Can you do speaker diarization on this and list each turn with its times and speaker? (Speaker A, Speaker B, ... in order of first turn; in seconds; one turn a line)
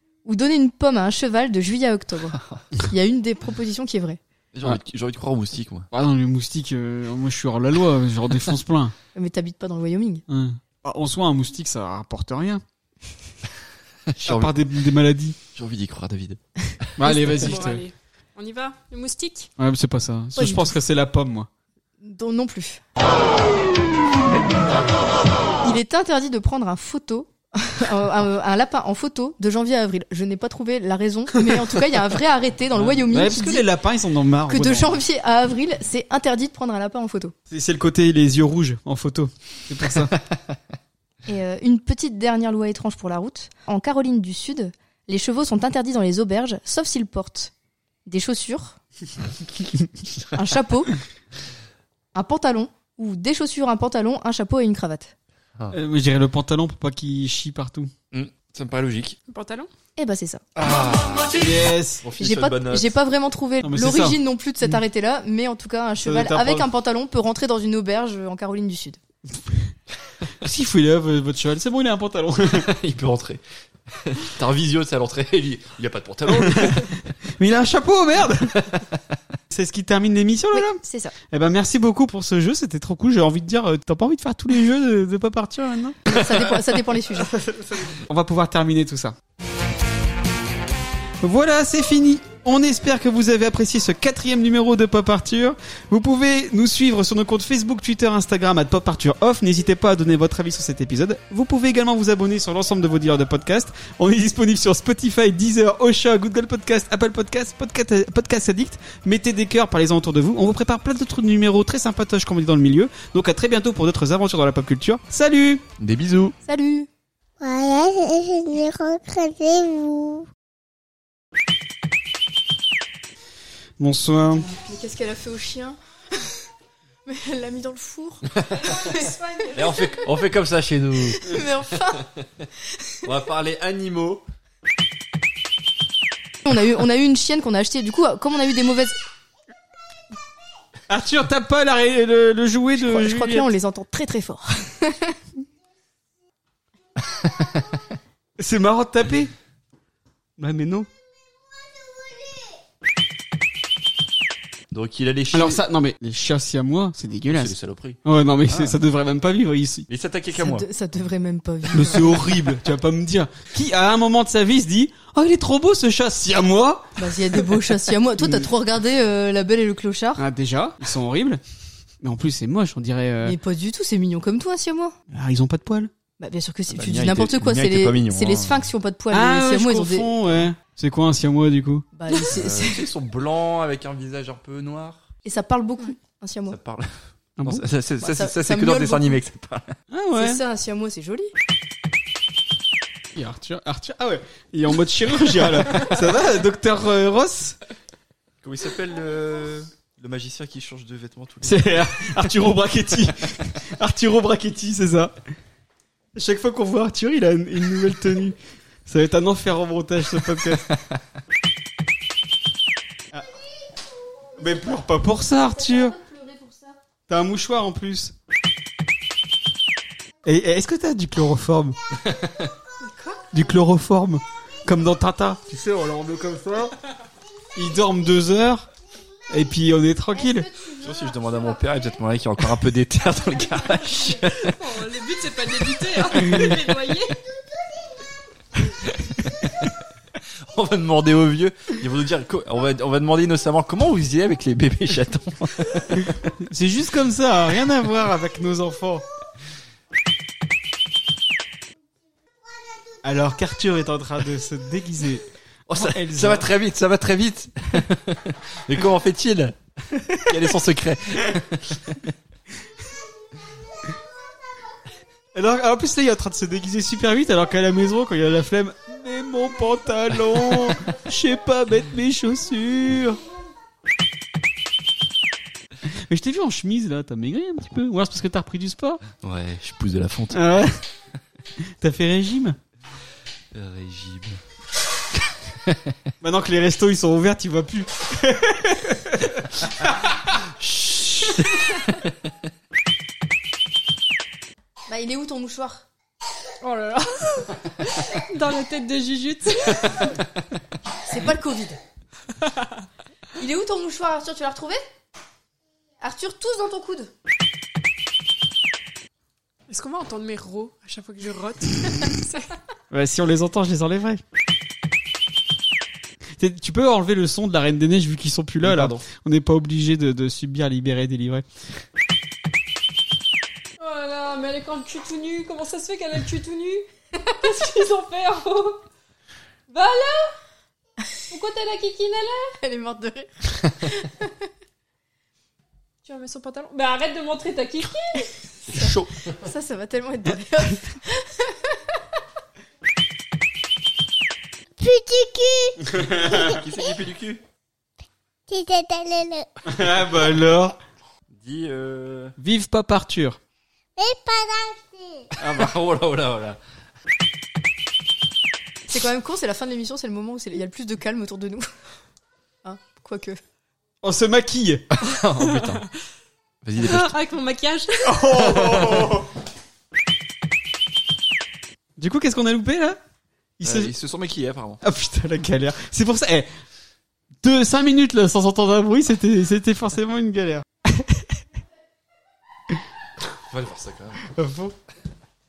Speaker A: 0.2-4.2
Speaker B: 4.5-5.9
Speaker C: 5.9-8.9
Speaker A: 9.2-10.2
Speaker C: 10.3-12.6
Speaker B: 14.1-14.6
Speaker C: 14.2-15.4
Speaker B: 15.6-16.9
Speaker C: 17.0-17.8
Speaker D: 17.0-19.5
Speaker C: 19.6-21.5
Speaker A: 20.4-20.7
Speaker A: 22.0-22.8
Speaker A: 25.6-33.6
Speaker C: 31.4-31.9
Speaker C: 32.8-35.0
Speaker A: 34.5-37.3
Speaker C: 37.5-40.1
Speaker A: 41.3-47.5
Speaker A: 48.1-48.8
Speaker A: 50.3-50.9
Speaker A: 52.1-55.1
Speaker C: 55.7-57.9
Speaker B: 58.1-59.2
Speaker D: 59.3-59.7
Speaker A: 60.0-60.4
Speaker B: 60.6-62.9
Speaker C: 61.4-62.0
Speaker A: 62.2-69.0
Speaker C: 63.6-64.8
Speaker C: 66.0-66.7
Speaker C: 70.4-72.7
Speaker B: 72.5-73.4
Speaker B: 74.0-76.9
Speaker C: 76.4-76.8
Speaker C: 77.4-78.7
Speaker C: 79.5-86.5
Speaker A: 80.5-81.2
Speaker A: 86.1-87.3
Speaker C: 87.2-89.2
Speaker C: 91.2-115.6
Speaker B: 115.8-116.3
Speaker A: 116.5-116.9
Speaker E: 117.4-120.2
Speaker C: 123.8-124.5
Speaker A: 124.4-125.8
Speaker A: 127.1-129.2
Speaker D: 128.6-130.1
Speaker B: 129.5-131.4
Speaker A: 131.2-132.1
Speaker B: 133.0-134.2
Speaker A: 136.4-138.9
Speaker C: 140.9-143.5
Speaker A: 142.8-145.2
Speaker B: 147.2-147.7
Speaker C: 148.4-149.3
Speaker C: 150.4-150.9
Speaker B: 154.7-155.6
Speaker C: 155.3-157.5
Speaker B: 157.3-158.8
Speaker C: 158.1-159.9
Speaker B: 159.9-160.7
Speaker A: 160.3-162.1
Speaker C: 161.7-167.6
Speaker A: 167.0-170.2
Speaker C: 168.2-168.5
Speaker C: 170.2-171.4
Speaker C: 172.0-173.4
Speaker A: 173.2-175.0
Speaker C: 175.1-175.9
Speaker A: 176.2-180.1
Speaker B: 176.7-178.7
Speaker C: 179.1-181.9
Speaker A: 182.0-182.9
Speaker B: 182.3-185.1
Speaker A: 185.2-186.6
Speaker B: 186.5-189.8
Speaker C: 187.4-187.7
Speaker A: 188.0-189.2
Speaker C: 189.9-190.4
Speaker A: 190.2-191.3
Speaker C: 193.2-197.6
Speaker B: 198.4-202.2
Speaker C: 201.4-205.1
Speaker C: 206.2-208.4
Speaker C: 208.9-210.7
Speaker C: 214.4-216.0
Speaker C: 217.1-218.1
Speaker C: 220.2-221.8
Speaker B: 222.0-222.5
Speaker D: 222.8-223.2
Speaker C: 223.3-226.8
Speaker C: 227.6-228.7
Speaker C: 229.3-230.5
Speaker B: 230.8-234.6
Speaker D: 234.4-237.2
Speaker B: 240.5-246.1
Speaker C: 246.4-249.0
Speaker C: 253.0-256.5
Speaker B: 255.7-259.6
Speaker B: 260.3-262.1
Speaker C: 265.4-273.2
Speaker C: 276.1-279.0
Speaker B: 279.2-280.4
Speaker C: 280.3-280.8
Speaker C: 281.8-282.6
Speaker B: 283.5-284.4
Speaker B: 285.6-286.0
Speaker C: 286.2-290.1
Speaker B: 290.6-292.1
Speaker A: 294.9-295.8
Speaker D: 296.6-300.2
Speaker A: 301.1-301.8
Speaker A: 303.4-304.8
Speaker A: 306.0-307.1
Speaker D: 309.7-312.6
Speaker C: 312.9-314.2
Speaker C: 316.4-321.4
Speaker B: 318.6-319.1
Speaker D: 323.8-328.8
Speaker D: 329.7-330.3
Speaker D: 331.3-332.5
Speaker A: 332.6-334.3
Speaker D: 336.0-338.3
Speaker B: 338.7-339.3
Speaker A: 338.8-341.8
Speaker E: 344.8-346.6
Speaker C: 345.9-346.5
Speaker B: 346.4-347.4
Speaker E: 348.5-349.5
Speaker C: 349.7-350.8
Speaker B: 351.3-352.4
Speaker C: 352.4-353.4
Speaker E: 354.0-355.3
Speaker C: 355.4-355.7
Speaker B: 355.4-356.6
Speaker A: 358.9-361.7
Speaker A: 362.6-363.4
Speaker C: 364.0-364.9
Speaker B: 364.9-365.9
Speaker D: 365.4-365.8
Speaker B: 366.6-367.2
Speaker D: 366.8-368.4
Speaker C: 368.1-369.3
Speaker B: 368.4-369.2
Speaker C: 372.0-373.0
Speaker C: 373.6-373.9
Speaker B: 373.6-374.8
Speaker C: 374.8-376.5
Speaker C: 377.4-381.3
Speaker B: 383.5-384.2
Speaker C: 384.3-384.8